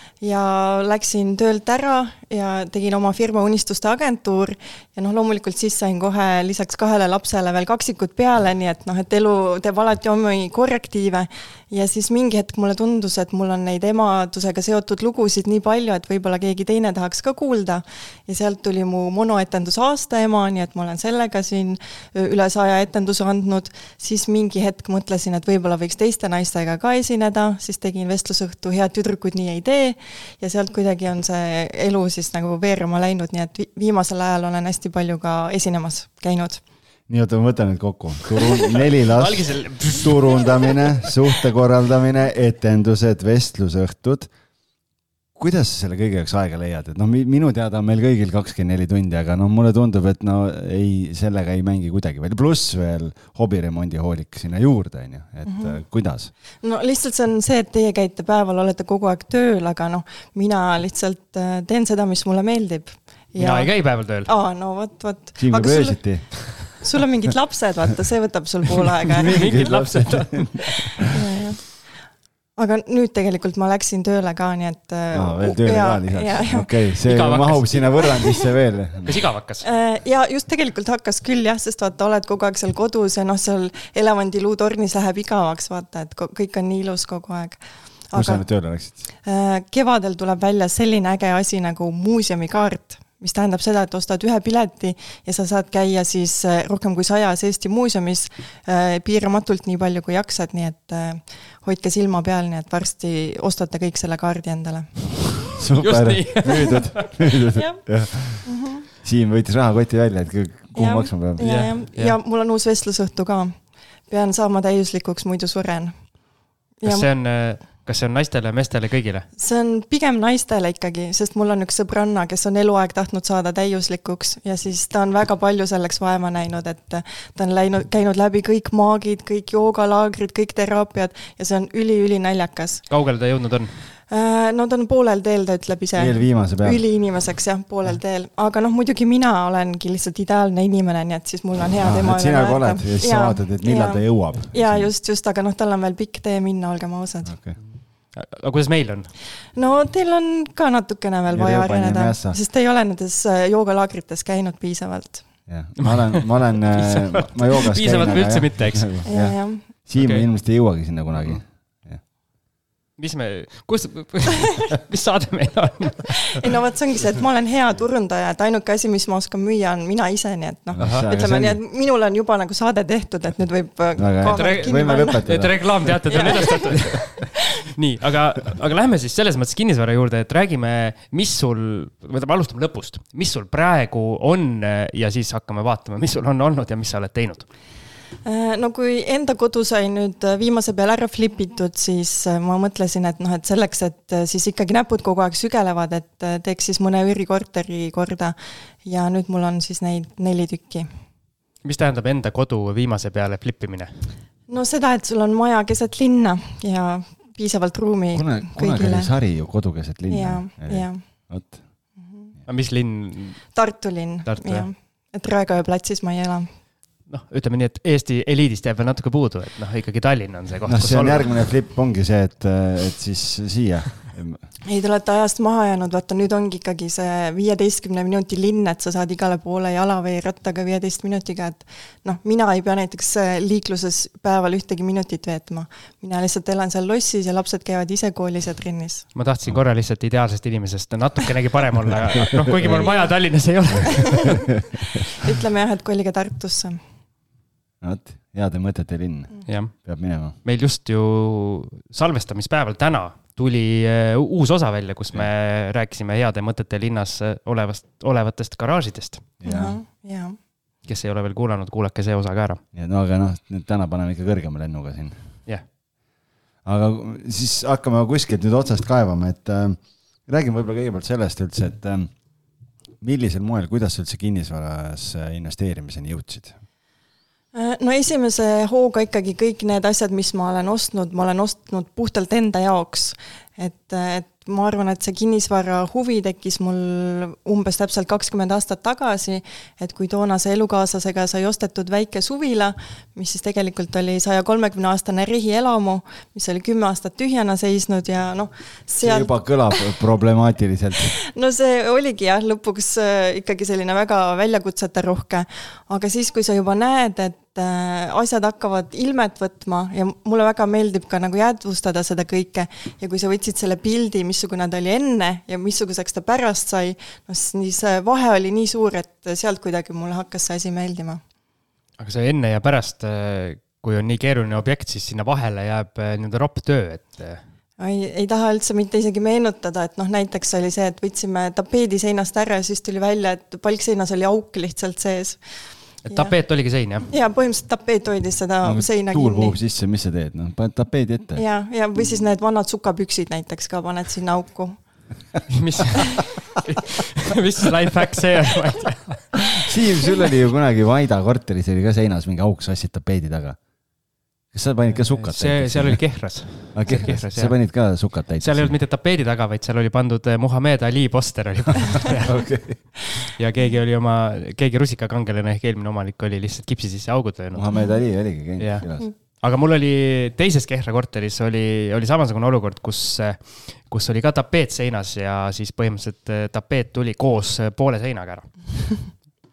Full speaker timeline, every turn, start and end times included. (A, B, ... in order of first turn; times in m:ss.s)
0:00.2-0:36.6 A
0:37.1-0:44.3 B
0:39.1-0:40.5 C
0:45.4-0:56.3 B
0:55.4-0:55.8 A
0:56.6-1:09.4 A
1:03.4-1:04.3 C
1:05.4-1:06.7 B
1:09.2-1:11.0 B
1:09.3-1:11.0 C
1:11.1-1:11.9 A
1:12.5-1:16.7 A
1:15.1-1:19.2 B
1:17.0-1:18.4 C
1:19.0-1:19.6 C
1:19.6-1:45.4 A
1:28.1-1:29.0 B
1:45.5-1:51.6 B
1:45.8-1:47.1 C
1:47.5-1:48.8 A
1:50.7-1:56.2 A
1:51.4-1:52.2 C
1:56.8-1:57.1 A
1:56.8-1:59.3 C
1:59.4-2:12.9 A
2:12.9-2:13.7 C
2:14.1-2:27.3 A
2:15.9-2:16.8 B
2:21.8-2:24.9 B
2:27.2-2:27.6 B
2:28.1-2:29.1 C
2:29.5-2:35.3 A
2:31.3-2:32.4 B
2:35.4-2:42.0 B
2:35.8-2:40.3 C
2:39.0-2:39.6 A
2:41.1-2:41.4 C
2:43.0-2:46.4 C
2:46.3-2:55.2 A
2:50.7-2:51.6 B
2:50.8-2:51.1 C
2:54.0-2:56.2 B
2:54.3-3:07.5 C
2:56.1-2:57.0 A
3:08.2-3:20.9 A
3:21.6-3:24.1 C
3:24.5-3:29.1 A
3:28.1-3:31.6 B
3:30.1-3:31.3 A
3:32.0-3:32.3 A
3:32.4-3:33.6 C
3:33.5-3:36.5 A
3:34.2-3:34.7 C
3:37.1-3:41.4 C
3:40.6-3:44.5 B
3:44.7-3:59.1 A
3:59.1-4:04.6 C
4:02.3-4:02.9 B
4:02.8-4:03.1 A
4:05.2-4:06.8 A
4:07.8-4:10.4 B
4:09.5-4:19.4 C
4:19.4-4:19.8 B
4:19.4-4:20.4 A
4:20.8-4:22.6 C
4:22.7-4:25.4 B
4:26.6-4:32.2 B
4:33.0-4:36.5 B
4:37.5-4:59.8 A
4:59.0-5:01.2 B
5:01.3-5:21.2 A
5:22.0-5:27.4 C
5:27.8-5:35.4 A
5:36.0-5:37.1 C
5:36.0-5:39.6 A
5:38.6-5:41.4 B
5:41.4-5:45.1 A
5:45.5-5:49.5 C
5:49.6-5:53.6 B
5:54.5-5:58.8 B
5:55.1-6:18.9 C
6:02.1-6:03.0 B
6:07.5-6:09.1 B